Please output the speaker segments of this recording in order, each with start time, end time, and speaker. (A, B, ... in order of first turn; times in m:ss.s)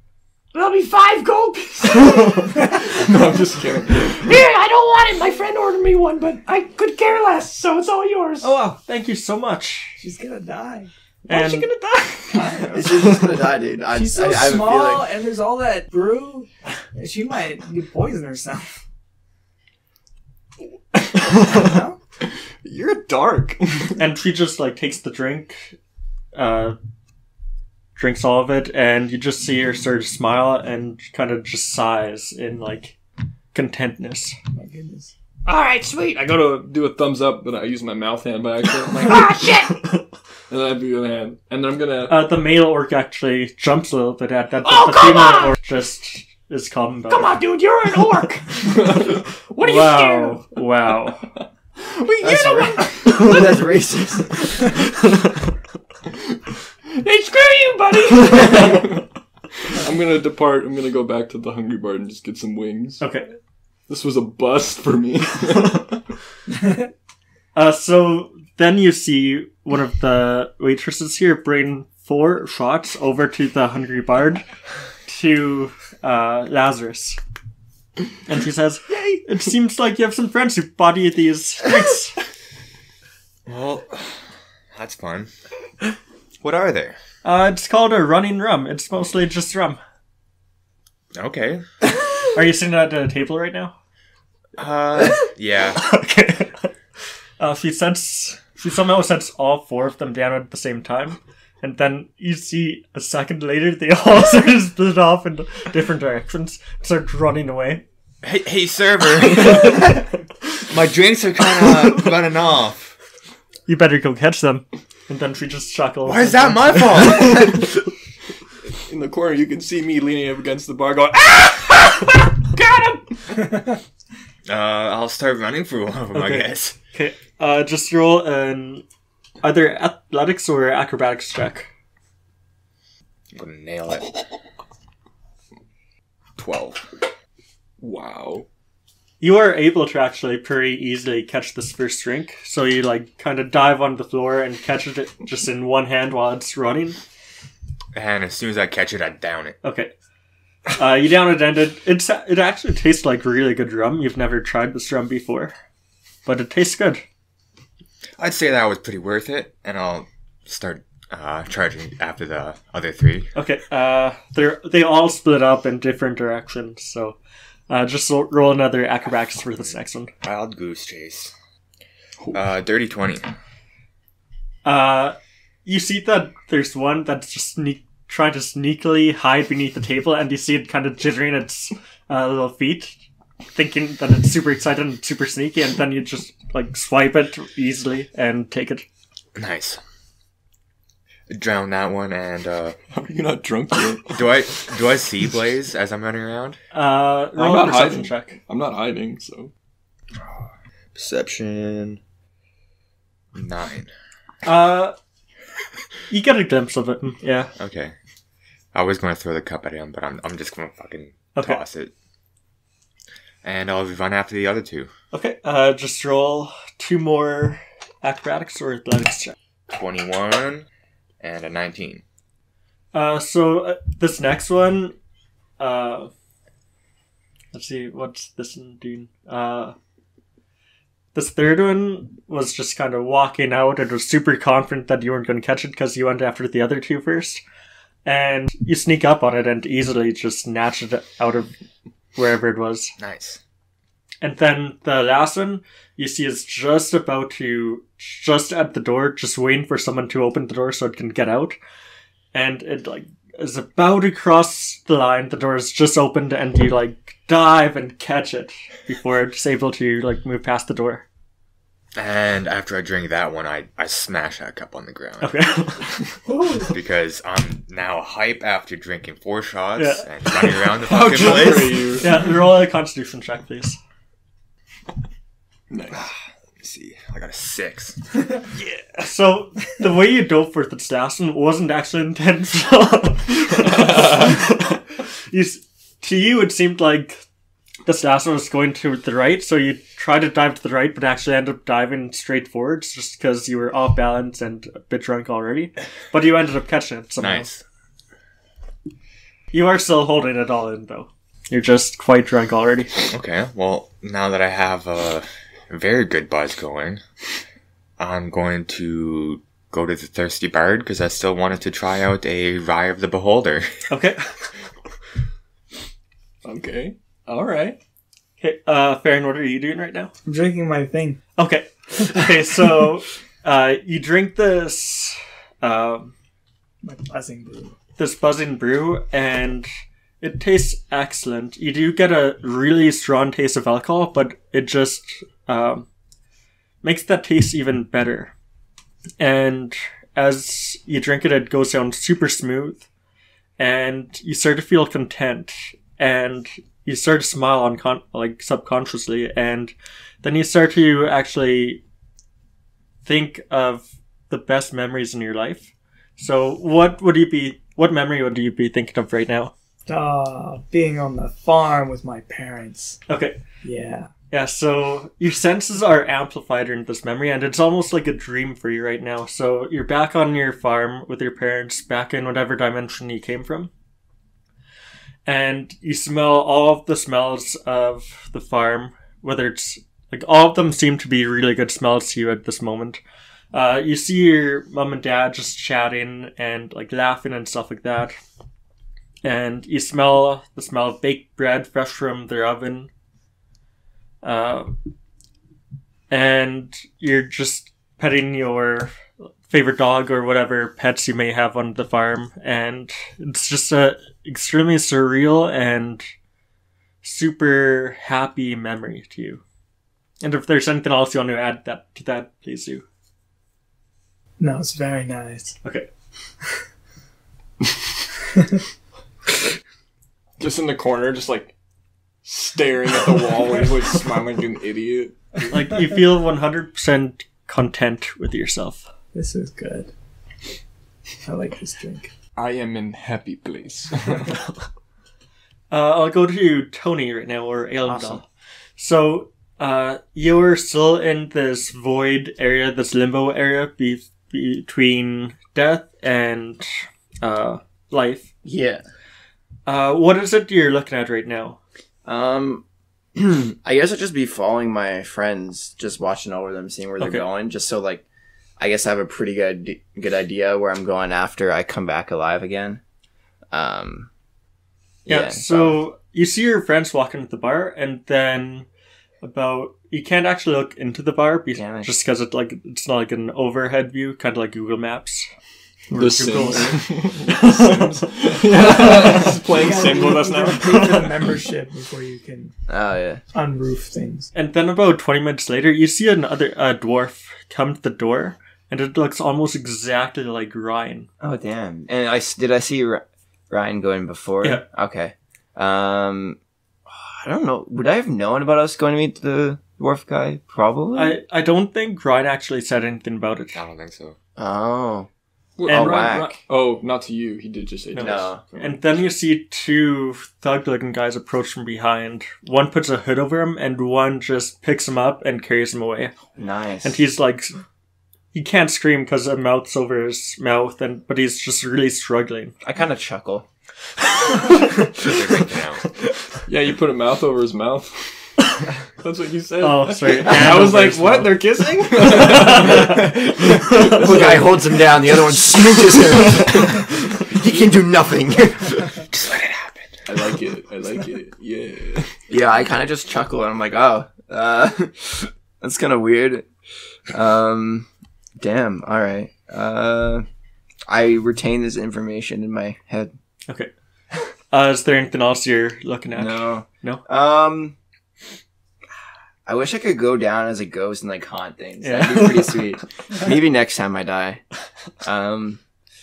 0:00.5-0:02.8 A
0:02.6-0:04.4 B
0:04.2-0:08.5 A
0:08.4-0:10.0 C
0:10.0-0:10.9 D
0:11.3-0:11.7 C
0:11.3-0:12.8 A
0:12.3-0:13.1 D
0:12.7-0:15.1 E
0:13.9-0:18.8 D
0:21.4-0:22.0 D
0:22.6-0:24.0 B
0:24.0-0:25.8 C
0:26.3-0:26.8 C
0:28.0-0:33.0 C
0:33.5-0:34.4 C
0:34.6-0:35.1 D
0:35.4-0:36.6 A
0:36.5-0:39.2 B
0:39.0-0:39.8 A
0:40.5-0:42.3 B
0:42.1-0:47.3 C
0:44.6-0:45.6 A
0:47.1-0:50.4 A
0:49.6-0:51.3 C
0:52.0-0:53.6 A
0:52.2-0:54.6 E
0:57.0-0:58.9 A
0:58.5-0:59.1 B
0:59.7-1:03.0 B
1:03.0-1:03.3 C
1:03.9-1:06.0 B
1:07.6-1:14.4 C
1:15.1-1:17.2 C
1:18.3-1:22.3 C
1:23.5-1:25.3 F
1:26.4-1:27.0 F
1:27.2-1:29.8 C
1:31.2-1:31.6 F
1:32.3-1:33.8 C
1:34.6-1:35.8 F
1:35.8-1:36.7 C
1:37.4-1:47.8 C
1:48.2-1:50.0 F
1:50.7-1:53.0 F
1:53.7-1:57.2 C
1:56.0-1:57.7 F
1:58.8-2:01.9 B
2:02.5-2:03.0 A
2:04.5-2:06.8 F
2:06.1-2:08.8 C
2:09.4-2:11.7 C
2:13.3-2:14.2 F
2:16.4-2:17.1 F
2:17.8-2:18.5 B
2:19.2-2:27.0 C
2:27.9-2:29.6 F
2:29.6-2:29.9 C
2:30.7-2:35.5 C
2:36.3-2:37.0 C
2:38.2-2:43.3 F
2:43.4-2:47.2 C
2:47.7-2:50.1 C
2:50.2-2:51.3 F
2:52.3-2:53.3 F
2:54.6-3:03.0 C
3:03.5-3:08.9 C
3:09.4-3:09.8 F
3:11.3-3:12.8 F
3:12.9-3:14.4 B
3:14.1-3:16.6 F
3:16.7-3:18.4 C
3:17.4-3:19.5 B
3:20.2-3:22.0 F
3:23.3-3:23.9 F
3:24.4-3:25.0 C
3:26.1-3:27.5 C
3:27.6-3:27.9 F
3:28.7-3:31.9 F
3:31.4-3:31.6 C
3:33.4-3:34.9 F
3:35.1-3:39.4 C
3:39.7-3:40.7 F
3:41.2-3:42.0 F
3:42.9-3:45.0 C
3:45.6-3:46.1 C
3:47.5-3:49.8 C
3:51.1-3:57.4 C
3:58.0-4:01.6 C
4:02.2-4:03.0 C
4:03.0-4:03.4 F
4:04.2-4:11.6 C
4:12.3-4:21.0 C
4:21.9-4:25.3 F
4:25.2-4:25.9 C
4:26.3-4:26.7 B
4:26.7-4:32.0 F
4:29.8-4:33.8 C
4:30.8-4:32.1 B
4:35.7-4:36.0 B
4:35.9-4:38.0 F
4:38.6-4:47.2 C
4:43.6-4:44.2 B
4:47.9-4:57.5 C
4:57.2-4:57.6 F
4:59.5-5:03.0 C
5:03.1-5:07.0 F
5:08.0-5:13.9 F
5:13.9-5:14.3 C
5:16.4-5:17.8 B
5:18.4-5:20.1 C
5:20.3-5:21.2 D
5:21.4-5:26.1 C
5:26.8-5:27.8 D
5:28.0-5:29.7 C
5:30.2-5:35.9 C
5:36.8-5:38.3 C
5:39.2-5:42.9 C
5:43.6-5:51.8 C
5:53.0-5:59.5 C
5:59.9-6:03.0 D
6:03.1-6:03.4 C
6:03.6-6:04.1 D
6:04.3-6:13.7 C
6:15.3-6:23.0 C
6:23.5-6:28.2 C
6:29.2-6:32.9 C
6:34.2-6:34.7 C
6:36.1-6:39.0 C
6:39.5-6:46.1 C
6:47.0-6:49.4 C
6:50.2-6:52.8 C
6:54.4-6:55.6 D
7:00.4-7:01.5 B
7:02.2-7:05.2 B
7:05.5-7:08.9 C
7:09.1-7:09.9 D
7:11.2-7:12.1 D
7:12.4-7:14.4 B
7:15.7-7:18.2 C
7:17.8-7:18.2 E
7:18.8-7:26.7 C
7:27.2-7:28.3 C
7:28.4-7:28.8 E
7:29.7-7:31.6 C
7:32.0-7:32.6 E
7:33.2-7:38.0 E
7:38.6-7:42.8 E
7:43.5-7:44.1 E
7:45.1-7:45.8 E
7:45.1-7:48.7 C
7:49.2-7:55.3 C
7:51.6-7:51.9 E
7:55.9-7:59.4 C
7:55.9-8:00.9 B
7:59.2-8:02.5 D
8:00.6-8:01.1 C
8:02.7-8:03.2 E
8:03.3-8:04.3 D
8:04.3-8:11.1 C
8:11.2-8:21.2 E
8:21.0-8:23.6 C
8:23.6-8:24.2 F
8:24.4-8:25.1 E
8:25.6-8:28.8 B
8:25.7-8:26.1 C
8:25.7-8:26.4 E
8:27.9-8:36.2 C
8:28.0-8:28.4 E
8:36.4-8:37.0 E
8:36.8-8:37.6 C
8:38.3-8:42.5 C
8:42.6-8:43.5 E
8:44.3-8:44.8 C
8:45.0-8:45.9 F
8:46.5-8:48.5 B
8:49.0-8:54.8 B
8:49.6-8:51.4 C
8:52.0-8:54.4 C
8:52.3-8:59.1 E
8:59.1-8:59.8 F
9:00.1-9:02.2 B
9:02.3-9:06.5 E
9:07.1-9:07.9 E
9:08.4-9:10.3 E
9:10.9-9:13.1 E
9:14.5-9:17.0 C
9:16.1-9:17.8 E
9:19.5-9:24.4 E
9:21.8-9:22.6 C
9:25.0-9:25.6 E